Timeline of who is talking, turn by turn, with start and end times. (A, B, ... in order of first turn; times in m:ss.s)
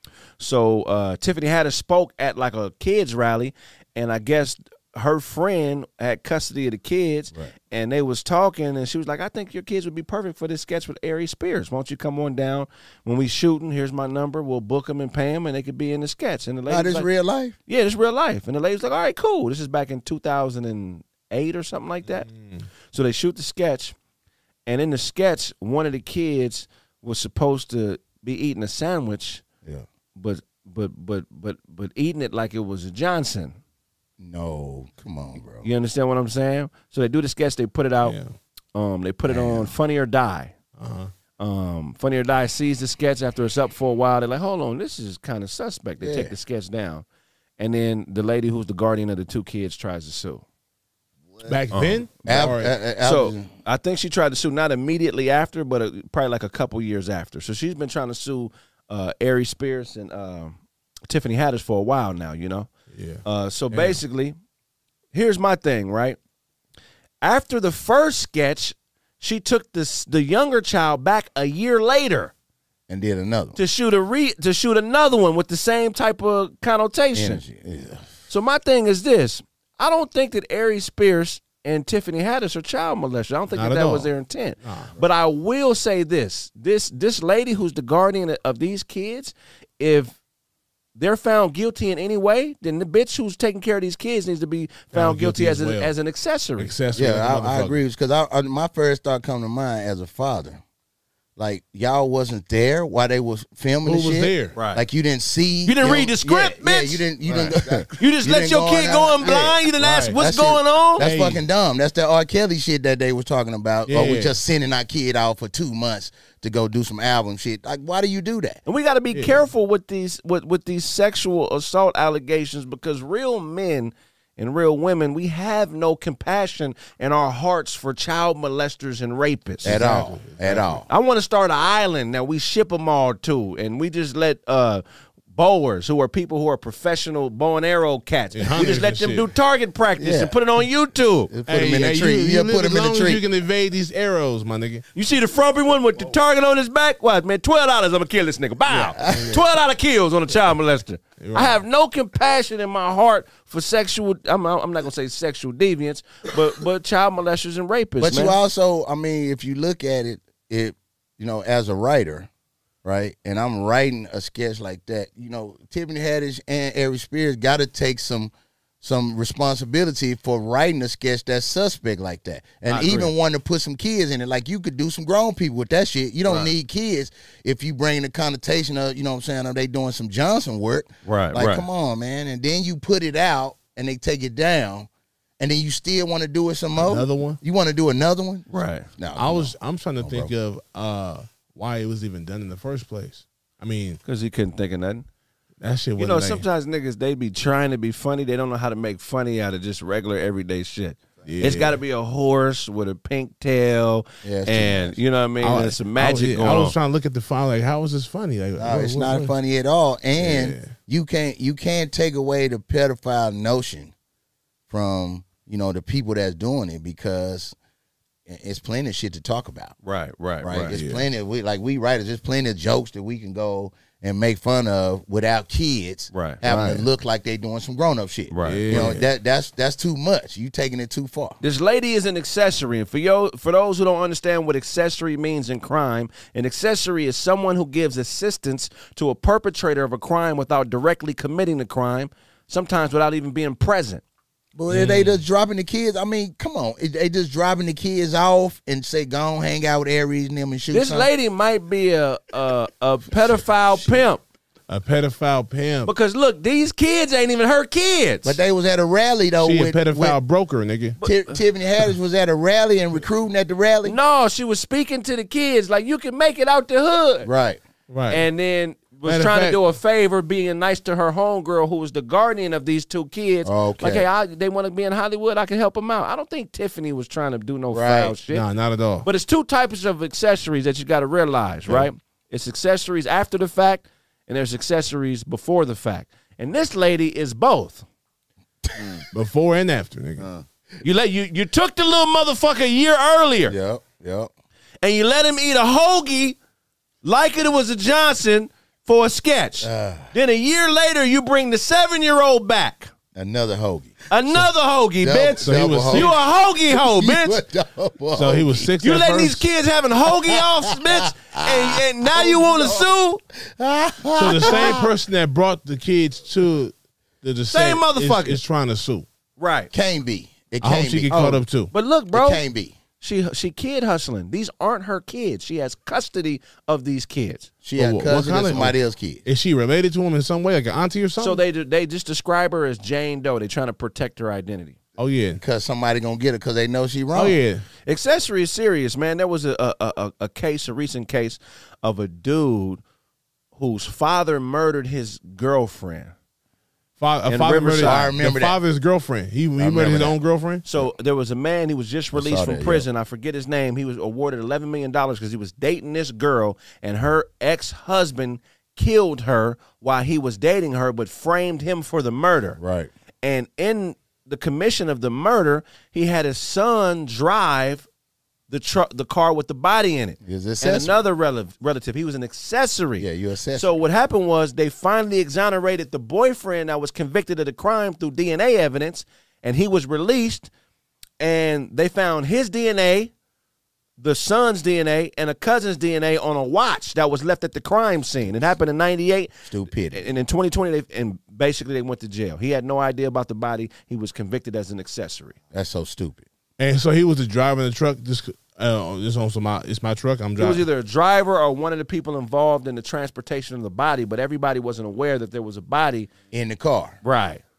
0:00.4-0:17.1 A
0:16.7-0:17.6 B
0:17.7-0:22.3 A
0:22.3-0:22.7 C
0:22.9-0:23.9 A
0:24.7-0:29.4 A
0:30.1-0:33.6 A
0:34.2-0:35.7 B
0:35.6-0:38.2 A
0:38.0-0:38.3 C
0:38.7-0:40.5 A
0:39.3-0:39.7 B
0:40.8-0:41.1 C
0:41.4-0:47.0 A
0:46.0-0:46.3 B
0:47.6-0:50.4 A
0:51.4-0:52.7 C
0:51.7-1:02.7 A
0:52.2-0:53.5 B
1:02.9-1:04.0 C
1:03.2-1:04.4 A
1:05.1-1:06.2 A
1:07.2-1:12.3 A
1:12.9-1:13.6 B
1:13.6-1:17.4 A
1:17.1-1:18.2 B
1:18.3-1:30.2 A
1:23.5-1:24.1 C
1:24.6-1:24.9 C
1:31.0-1:36.7 A
1:34.9-1:35.9 C
1:36.6-1:37.8 C
1:36.9-1:40.6 B
1:41.4-1:58.6 B
1:43.8-1:44.6 C
1:44.5-1:44.8 A
1:45.6-1:47.0 A
1:47.3-1:47.8 C
1:47.9-1:51.1 A
1:49.8-1:50.2 C
1:51.0-1:51.4 C
1:53.9-1:54.3 C
1:58.6-2:09.8 A
1:59.1-1:59.4 C
2:09.6-2:10.8 C
2:09.6-2:10.8 B
2:10.9-2:21.3 A
2:18.3-2:19.3 C
2:20.0-2:20.4 B
2:21.3-2:23.2 B
2:21.5-2:24.8 C
2:24.9-2:38.4 A
2:28.7-2:29.4 B
2:29.1-2:29.3 C
2:31.2-2:31.6 C
2:38.0-2:42.3 B
2:42.8-3:08.4 B
2:52.7-2:53.1 A
2:56.2-2:56.5 A
3:01.0-3:01.6 A
3:06.8-3:07.4 C
3:08.5-3:08.9 A
3:09.0-3:10.3 B
3:09.2-3:14.0 C
3:14.0-3:15.0 A
3:15.6-3:16.4 C
3:16.0-3:26.7 A
3:21.2-3:21.8 C
3:24.2-3:25.0 B
3:25.4-3:29.3 C
3:28.6-3:33.9 B
3:30.2-3:30.7 C
3:34.7-3:37.6 B
3:38.2-3:39.8 B
3:39.8-3:40.7 A
3:40.4-3:51.4 B
3:40.7-3:41.1 C
3:46.1-3:46.8 A
3:48.3-3:49.0 A
3:48.4-3:49.0 C
3:51.4-4:04.0 A
4:04.5-4:11.1 B
4:04.7-4:05.1 C
4:10.7-4:14.2 A
4:13.1-4:14.1 B
4:14.7-4:15.9 C
4:15.8-4:18.4 A
4:18.2-4:20.2 B
4:19.4-4:21.0 C
4:21.0-4:21.4 A
4:21.0-4:24.0 B
4:23.8-4:27.3 A
4:27.2-4:27.6 B
4:27.9-4:28.2 C
4:28.1-4:38.4 A
4:29.0-4:29.6 C
4:33.4-4:34.0 B
4:37.7-4:38.2 B
4:38.3-4:39.1 C
4:39.0-4:47.8 A
4:48.6-4:49.0 B
4:49.1-4:50.3 C
4:50.2-4:50.4 B
4:50.8-4:53.6 A
4:53.4-4:54.3 B
4:54.8-4:56.4 A
4:57.0-5:02.9 A
4:59.6-5:00.1 B
5:03.1-5:04.4 B
5:04.1-5:07.4 A
5:05.0-5:08.7 B
5:05.4-5:06.2 C
5:08.1-5:09.4 C
5:08.8-5:13.2 A
5:10.1-5:14.9 B
5:14.1-5:19.1 C
5:14.4-5:14.7 A
5:17.5-5:18.4 A
5:19.4-5:19.7 A
5:19.7-5:21.2 B
5:20.6-5:21.7 C
5:21.1-5:22.4 A
5:22.1-5:22.8 B
5:23.0-5:27.5 A
5:27.6-5:29.2 B
5:27.8-5:31.4 C
5:31.2-5:34.8 A
5:35.0-5:35.4 C
5:35.4-5:37.4 B
5:37.1-5:37.6 C
5:37.8-5:42.8 A
5:43.5-5:46.1 A
5:47.0-5:50.6 C
5:47.2-5:48.1 A
5:47.8-5:48.6 B
5:49.6-5:50.2 B
5:50.6-6:02.6 A
5:52.1-5:52.9 B
6:02.6-6:02.9 B
6:03.2-6:07.9 A
6:08.5-6:20.5 A
6:10.2-6:11.0 B
6:13.0-6:13.8 B
6:21.2-6:23.1 A
6:24.0-6:29.3 A
6:29.4-6:30.1 B
6:29.9-6:35.4 A
6:35.5-6:36.2 B
6:36.6-6:40.7 C
6:40.4-6:46.1 A
6:46.3-6:47.0 B
6:47.0-6:47.4 A